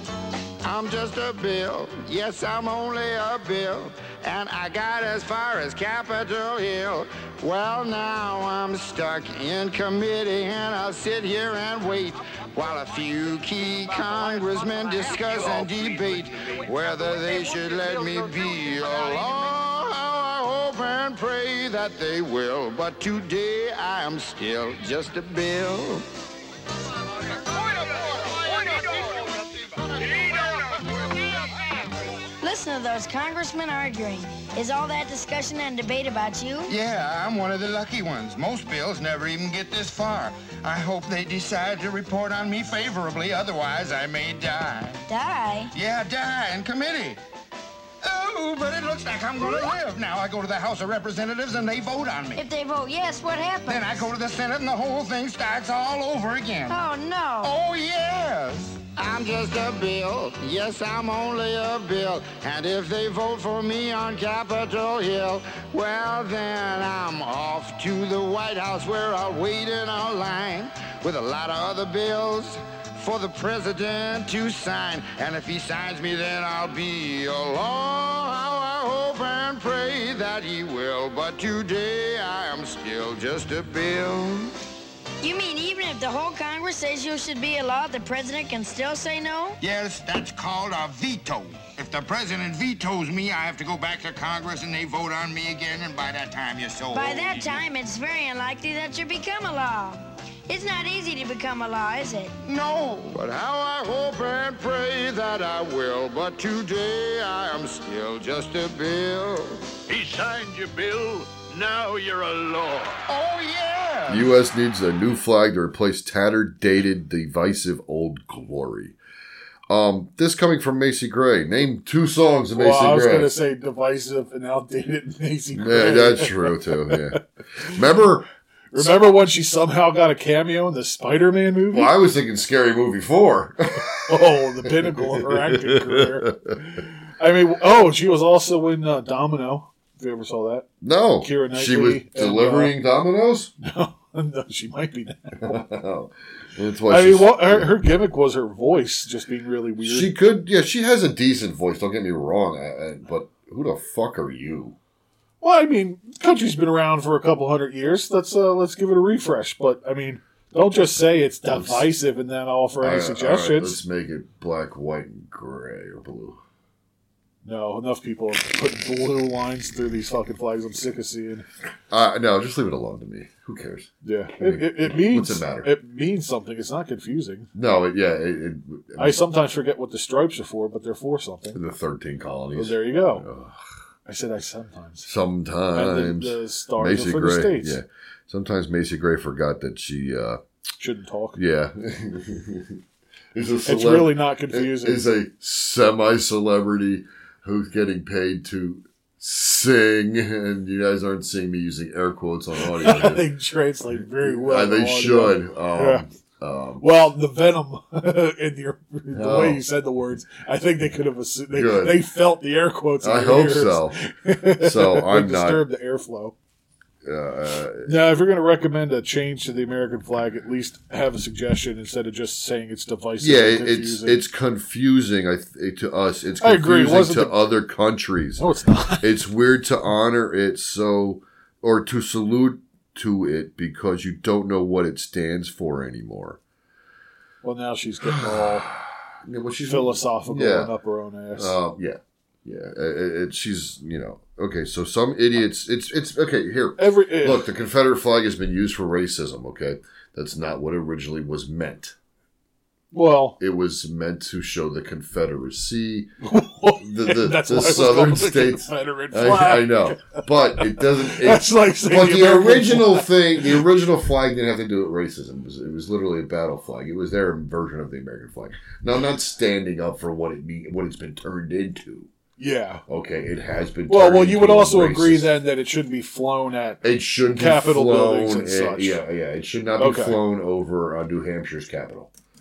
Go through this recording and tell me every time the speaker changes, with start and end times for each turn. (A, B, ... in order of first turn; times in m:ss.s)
0:00.6-0:26.0 A
0:30.0-0:30.3 A
0:32.4-0:36.7 B
0:36.7-0:45.0 A
0:45.1-0:45.7 B
0:45.7-0:47.2 A
0:48.0-0:52.4 A
0:52.4-0:54.1 B
0:53.7-0:56.8 A
0:56.7-0:57.5 B
0:57.4-1:24.5 A
1:25.2-1:29.6 B
1:29.6-1:37.6 A
1:36.9-1:42.3 B
1:42.4-1:49.6 A
1:49.9-1:53.0 C
1:53.1-1:54.3 A
1:54.1-1:59.0 D
1:59.7-2:03.3 D
2:02.5-2:07.2 E
2:05.5-2:08.9 D
2:08.7-2:11.9 E
2:11.7-2:16.6 D
2:14.1-2:20.7 E
2:20.8-2:23.5 D
2:21.2-2:22.7 E
2:23.6-2:25.6 E
2:25.4-2:27.7 D
2:26.9-2:30.1 E
2:29.8-2:34.8 D
2:35.4-2:43.8 E
2:41.5-2:41.9 D
2:42.8-2:46.4 D
2:47.4-2:51.4 E
2:51.9-2:55.7 D
2:54.0-2:57.5 E
2:57.5-2:59.2 D
2:59.0-3:01.6 E
3:01.5-3:03.6 D
3:02.5-3:03.2 E
3:04.0-3:05.1 E
3:05.0-3:10.4 D
3:05.7-3:07.8 E
3:10.8-3:11.4 E
3:11.4-3:12.8 D
3:13.3-3:23.3 D
3:13.6-3:15.0 E
3:22.6-3:26.0 E
3:24.2-3:26.9 D
3:26.8-3:36.3 E
3:29.1-3:29.6 D
3:31.5-3:32.0 D
3:33.0-3:34.0 D
3:34.6-3:35.6 D
3:37.0-3:37.9 D
3:37.8-3:44.2 E
3:43.2-3:48.4 D
3:46.4-3:47.4 E
3:48.4-3:49.1 E
3:49.0-3:56.4 D
3:57.4-3:58.7 E
3:58.1-4:00.7 D
3:59.7-4:01.6 E
4:01.4-4:11.9 D
4:06.8-4:07.5 E
4:12.9-4:13.4 E
4:13.4-4:16.1 D
4:16.2-4:23.6 E
4:16.8-4:32.1 D
4:32.4-4:32.8 E
4:32.9-4:35.3 D
4:33.9-4:39.0 E
4:36.8-4:42.1 D
4:39.8-4:40.2 E